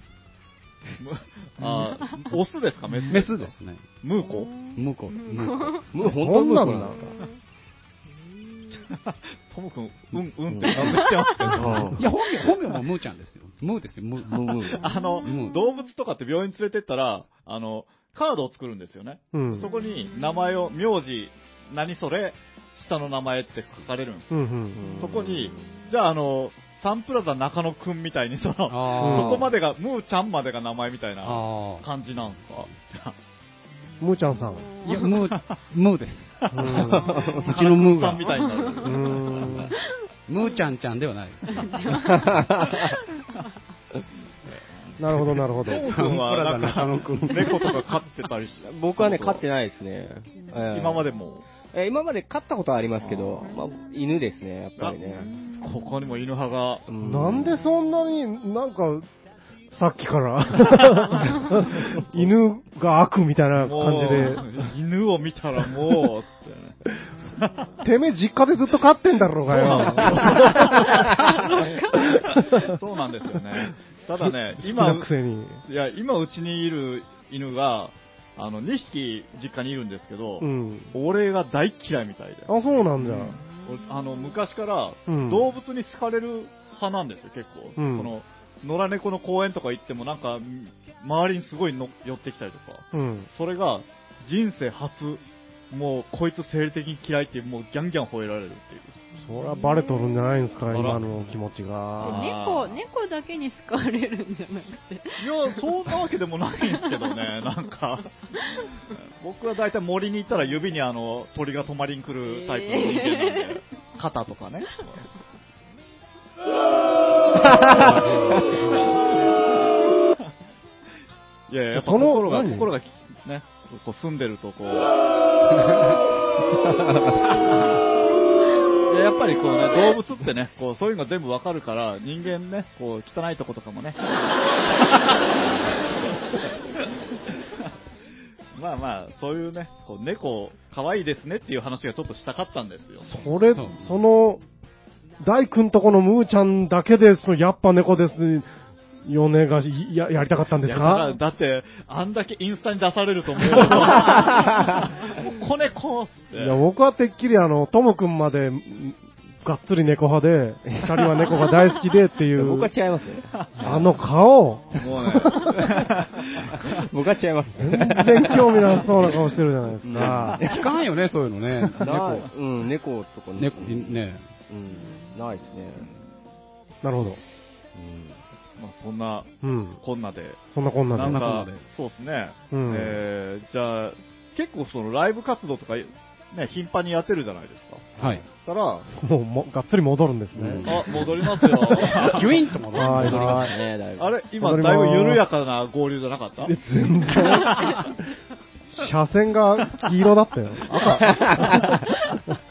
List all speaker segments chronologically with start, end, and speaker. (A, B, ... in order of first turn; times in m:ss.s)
0:01.0-0:04.5 A
0:01.8-0:02.3 B
0:03.0-0:03.8 C
0:04.2-0:05.9 B
0:04.8-0:05.9 C
0:05.9-0:07.1 D
0:06.0-0:07.1 E
0:06.8-0:07.4 B
0:08.5-0:08.9 B
0:08.8-0:12.0 A
0:10.6-0:11.6 B
0:11.5-0:12.0 D
0:12.0-0:15.6 C
0:14.2-0:14.8 D
0:14.7-0:15.8 B
0:14.8-0:24.3 A
0:19.3-0:19.7 E
0:19.6-0:20.3 B
0:24.3-0:25.0 E
0:24.7-0:25.6 D
0:25.0-0:33.2 A
0:28.7-0:29.5 C
0:29.0-0:29.5 E
0:31.2-0:31.9 C
0:34.0-0:34.7 E
0:34.2-0:35.1 B
0:34.8-0:38.3 C
0:35.0-0:35.6 A
0:36.5-0:39.2 A
0:36.5-0:37.2 E
0:37.0-0:37.4 D
0:38.2-0:39.4 B
0:38.8-0:39.7 E
0:39.4-0:39.6 C
0:40.3-0:41.9 C
0:40.4-0:40.7 B
0:41.4-0:43.0 B
0:42.0-0:42.9 D
0:44.5-0:49.4 A
0:45.0-0:45.9 E
0:45.8-0:47.8 C
0:48.6-0:51.1 D
0:50.7-0:51.4 A
0:51.7-0:55.3 D
0:53.0-0:53.5 A
0:53.4-0:53.8 B
0:55.0-0:56.2 B
0:55.6-0:56.8 A
0:56.9-0:57.6 D
0:57.0-0:59.1 E
0:59.7-1:04.5 E
1:01.1-1:01.6 B
1:03.6-1:06.8 A
1:07.4-1:07.6 A
1:07.8-1:10.9 E
1:09.5-1:15.1 A
1:10.3-1:12.1 B
1:14.2-1:15.6 E
1:15.6-1:39.0 A
1:20.4-1:21.0 E
1:22.5-1:23.4 E
1:23.4-1:24.4 B
1:25.1-1:25.5 E
1:27.8-1:28.1 E
1:32.9-1:33.3 E
1:39.2-1:40.4 B
1:39.2-1:42.3 E
1:40.7-1:41.0 A
1:42.0-1:42.8 A
1:42.0-1:45.9 B
1:45.2-1:48.1 A
1:46.7-1:47.2 B
1:49.2-1:55.0 A
1:52.2-1:53.6 B
1:57.4-1:58.0 A
1:57.5-1:58.4 D
1:57.6-1:59.0 C
1:58.8-1:59.4 A
2:01.5-2:04.9 A
2:01.7-2:02.7 E
2:06.9-2:07.2 D
2:07.5-2:07.8 A
2:08.9-2:14.1 A
2:14.8-2:15.3 A
2:18.6-2:23.2 A
2:23.0-2:24.4 E
2:23.5-2:24.0 C
2:25.2-2:28.5 E
2:29.0-2:31.2 E
2:30.6-2:36.6 A
2:33.6-2:34.9 D
2:36.4-2:42.7 E
2:40.7-2:41.4 D
2:42.4-2:44.0 D
2:43.4-2:43.7 A
2:43.6-2:45.7 E
2:44.7-2:46.8 A
2:46.6-2:49.2 D
2:47.6-2:50.4 E
2:49.8-2:50.6 D
2:50.0-2:52.2 C
2:51.7-2:55.9 D
2:53.4-2:54.2 C
2:54.7-2:55.1 B
2:56.8-2:57.2 E
2:57.8-2:58.2 D
2:58.6-2:59.3 A
2:59.4-2:59.8 E
2:59.8-3:08.9 A
3:00.5-3:01.4 E
3:01.0-3:01.6 C
3:02.5-3:03.0 E
3:08.0-3:08.2 D
3:08.0-3:08.2 C
3:08.9-3:11.8 E
3:10.4-3:11.1 C
3:10.4-3:10.6 D
3:10.6-3:12.4 A
3:11.8-3:13.6 C
3:11.8-3:12.2 D
3:12.7-3:13.6 E
3:12.8-3:14.2 D
3:14.0-3:16.6 A
3:14.4-3:15.2 E
3:16.4-3:17.9 E
3:17.1-3:17.8 A
3:18.7-3:21.6 E
3:20.7-3:21.8 A
3:20.8-3:21.9 D